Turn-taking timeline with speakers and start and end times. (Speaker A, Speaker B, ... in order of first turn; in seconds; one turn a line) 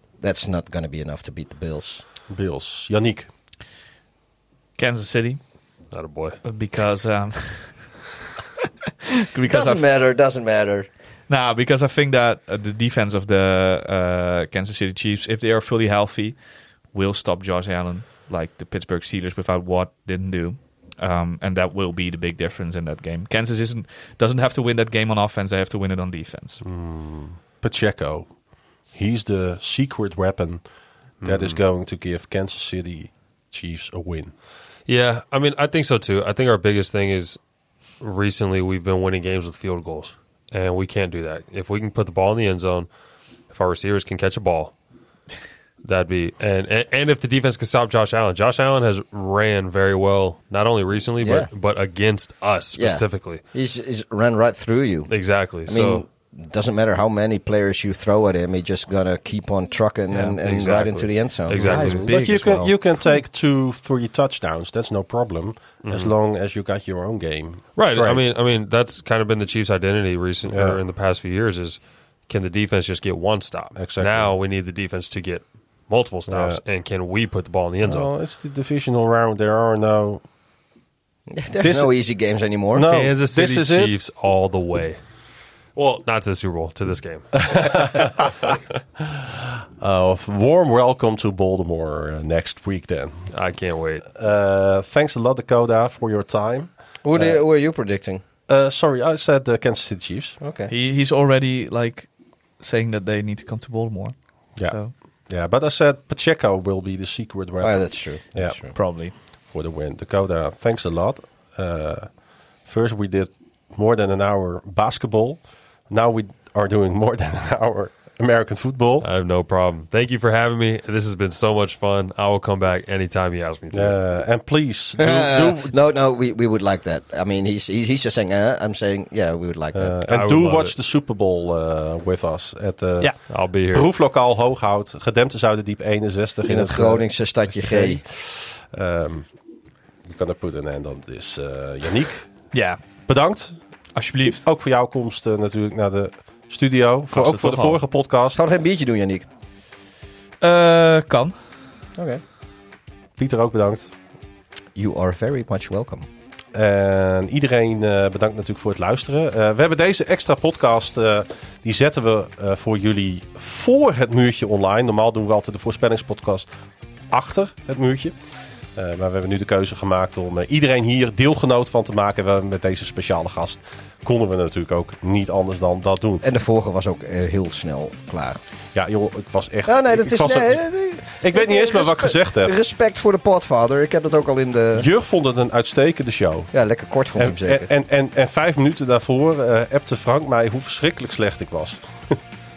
Speaker A: 0.2-2.0
Speaker B: 2.3-3.3
Speaker C: 4.8-5.4
Speaker D: 5.9-6.4
Speaker C: 6.4-8.0
Speaker C: 9.3-9.8
Speaker A: 9.5-10.9
Speaker C: 11.3-16.4
Speaker C: 16.9-26.6
Speaker B: 26.6-28.4
Speaker B: 28.9-30.7
Speaker D: 31.2-31.6
Speaker B: 31.2-34.3
Speaker D: 34.9-37.4
Speaker D: 38.0-42.9
Speaker D: 43.5-44.7
Speaker D: 45.8-53.4
Speaker A: 51.2-51.5
Speaker A: 52.8-55.1
Speaker D: 55.1-56.0
Speaker A: 55.6-62.0
Speaker C: 60.1-60.4
Speaker D: 60.4-62.1
Speaker C: 61.6-62.8
Speaker B: 61.7-68.2
Speaker D: 65.8-66.1
Speaker D: 67.8-78.1
Speaker B: 70.5-70.8
Speaker B: 73.8-74.3
Speaker B: 76.3-76.6
Speaker B: 77.8-80.2
Speaker A: 81.3-82.9
Speaker B: 81.6-81.9
Speaker B: 82.7-83.9
Speaker D: 82.8-85.0
Speaker D: 85.8-88.0
Speaker B: 87.4-93.3
Speaker D: 93.3-94.0
Speaker B: 94.1-97.4
Speaker A: 97.0-98.2
Speaker B: 98.5-100.4
Speaker A: 100.4-100.7
Speaker C: 100.7-104.9
Speaker B: 104.6-119.1
Speaker A: 107.6-108.8
Speaker C: 108.4-109.2
Speaker D: 119.0-124.0
Speaker B: 123.7-125.7
Speaker A: 125.0-129.9
Speaker B: 129.7-133.1
Speaker D: 130.1-130.8
Speaker D: 133.3-133.9
Speaker B: 133.7-137.1
Speaker A: 136.5-138.0
Speaker B: 137.7-139.3
Speaker B: 140.0-142.5
Speaker C: 142.5-142.8
Speaker B: 143.1-143.6
Speaker C: 143.9-144.5
Speaker B: 144.4-148.4
Speaker C: 147.1-147.8
Speaker A: 148.3-149.3
Speaker C: 150.4-151.4
Speaker A: 152.0-152.2
Speaker B: 153.2-153.9
Speaker A: 154.8-156.1
Speaker B: 156.5-166.5
Speaker B: 167.1-168.1
Speaker B: 168.8-176.2
Speaker A: 176.2-178.4
Speaker B: 178.7-182.5
Speaker A: 179.7-184.9
Speaker B: 184.8-186.5
Speaker A: 186.5-187.7
Speaker B: 187.2-192.2